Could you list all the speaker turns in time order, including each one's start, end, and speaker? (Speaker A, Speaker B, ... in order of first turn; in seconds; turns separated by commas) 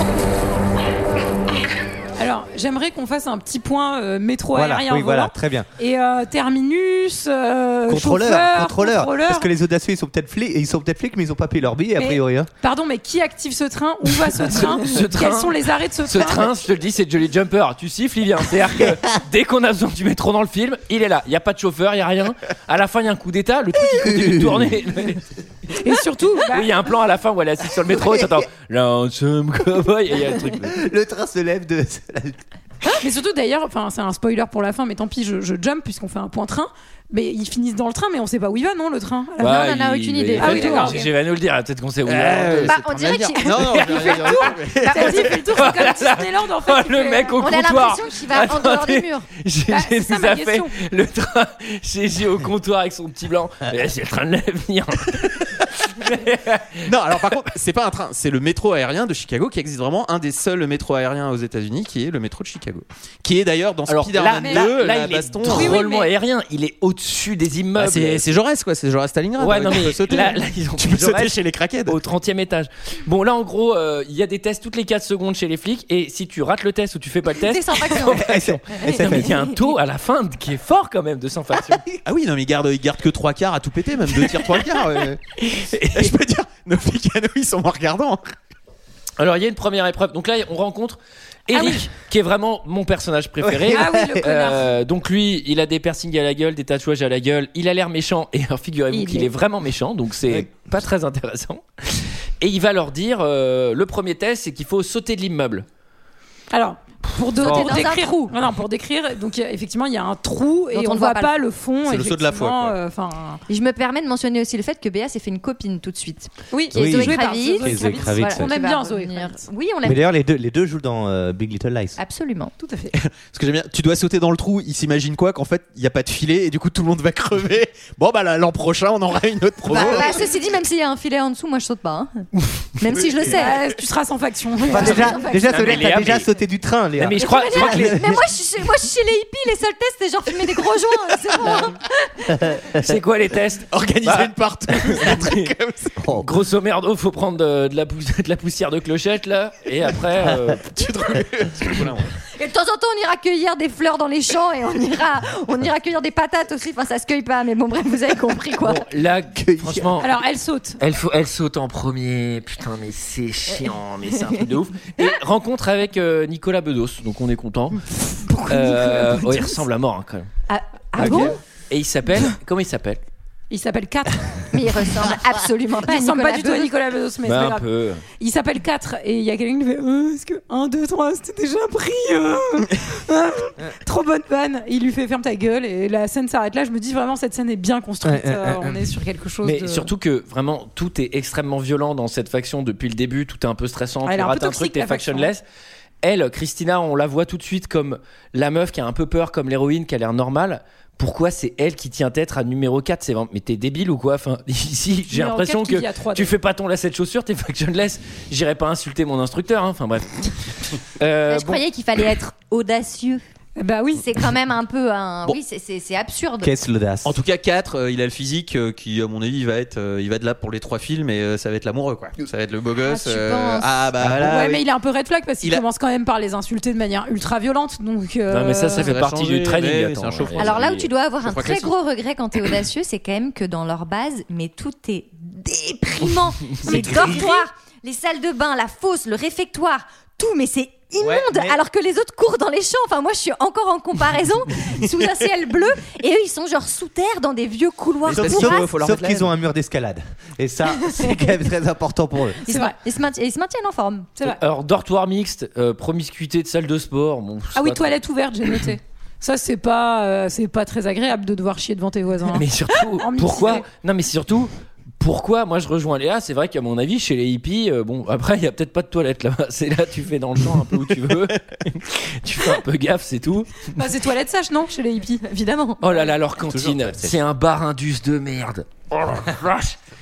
Speaker A: 2.2-9.5, Speaker B: 4.5-5.7, Speaker B: 7.9-12.5, Speaker A: 12.0-16.6, Speaker C: 14.7-25.2, Speaker B: 23.8-24.8, Speaker A: 25.8-26.8, Speaker C: 26.5-30.7, Speaker B: 30.5-32.4, Speaker A: 33.0-39.6, Speaker C: 39.4-42.7, Speaker D: 39.5-41.1, Speaker A: 40.4-41.0, Speaker E: 42.0-45.6, Speaker D: 42.6-44.5, Speaker A: 43.3-47.4, Speaker C: 45.0-56.9, Speaker D: 47.4-49.3, Speaker A: 49.7-50.7, Speaker E: 56.8-65.8, Speaker C: 63.9-68.2, Speaker A: 64.4-64.7, Speaker A: 65.4-66.1, Speaker E: 67.8-72.0, Speaker C: 69.4-71.3, Speaker C: 71.8-81.8, Speaker D: 77.3-79.4, Speaker B: 77.9-79.4, Speaker E: 82.0-85.2, Speaker C: 84.2-84.5, Speaker C: 85.4-86.2, Speaker E: 85.9-88.2, Speaker C: 89.2-105.7, Speaker A: 91.5-91.8, Speaker B: 93.4-94.2, Speaker A: 93.7-94.7, Speaker A: 98.9-99.3, Speaker A: 106.5-113.4, Speaker D: 107.4-108.3, Speaker B: 107.4-107.7, Speaker D: 110.7-111.3, Speaker E: 111.8-112.7, Speaker D: 113.5-120.0, Speaker A: 116.5-119.5, Speaker B: 116.7-118.5, Speaker B: 119.8-122.0, Speaker D: 122.0-122.5, Speaker A: 122.6-123.0, Speaker E: 122.9-130.2, Speaker D: 129.7-132.2, Speaker B: 129.7-130.2, Speaker D: 132.8-133.6, Speaker E: 132.9-133.4, Speaker A: 133.3-135.2, Speaker B: 134.7-138.2, Speaker D: 134.7-135.8, Speaker C: 135.4-136.3, Speaker C: 137.0-138.1, Speaker D: 137.2-142.5, Speaker B: 142.4-142.7, Speaker C: 142.8-145.5, Speaker E: 143.7-146.0, Speaker B: 146.0-146.3, Speaker C: 146.1-150.6, Speaker E: 150.6-152.1, Speaker D: 152.4-158.8, Speaker C: 158.6-160.1, Speaker B: 159.4-159.9, Speaker A: 160.0-160.8, Speaker C: 160.8-167.8, Speaker A: 168.2-169.6, Speaker C: 168.5-170.3, Speaker D: 170.5-171.4, Speaker C: 171.0-173.0, Speaker A: 173.5-174.5, Speaker D: 174.5-176.7, Speaker A: 175.8-177.7, Speaker C: 177.2-178.0, Speaker A: 178.2-189.9, Speaker B: 188.0-188.9, Speaker C: 189.4-195.4, Speaker A: 194.1-195.3, Speaker C: 196.0-210.4, Speaker A: 205.1-206.3, Speaker C: 210.9-211.6, Speaker D: 211.3-213.2, Speaker A: 213.6-214.0, Speaker D: 213.9-216.5, Speaker B: 216.4-217.2, Speaker E: 217.0-224.6, Speaker D: 222.8-223.7, Speaker A: 224.2-228.9, Speaker C: 228.3-230.9, Speaker E: 228.7-230.7, Speaker D: 230.4-248.7, Speaker E: 231.2-231.7, Speaker C: 236.5-237.2, Speaker B: 236.7-237.0, Speaker A: 237.1-237.4, Speaker B: 241.0-241.6, Speaker B: 248.0-252.4, Speaker E: 248.1-249.3, Speaker D: 252.4-254.1, Speaker A: 252.5-252.7, Speaker C: 254.2-258.0, Speaker A: 257.5-263.6, Speaker C: 262.3-273.8, Speaker A: 273.8-275.2, Speaker D: 275.2-276.1, Speaker C: 275.8-279.8, Speaker B: 276.4-277.2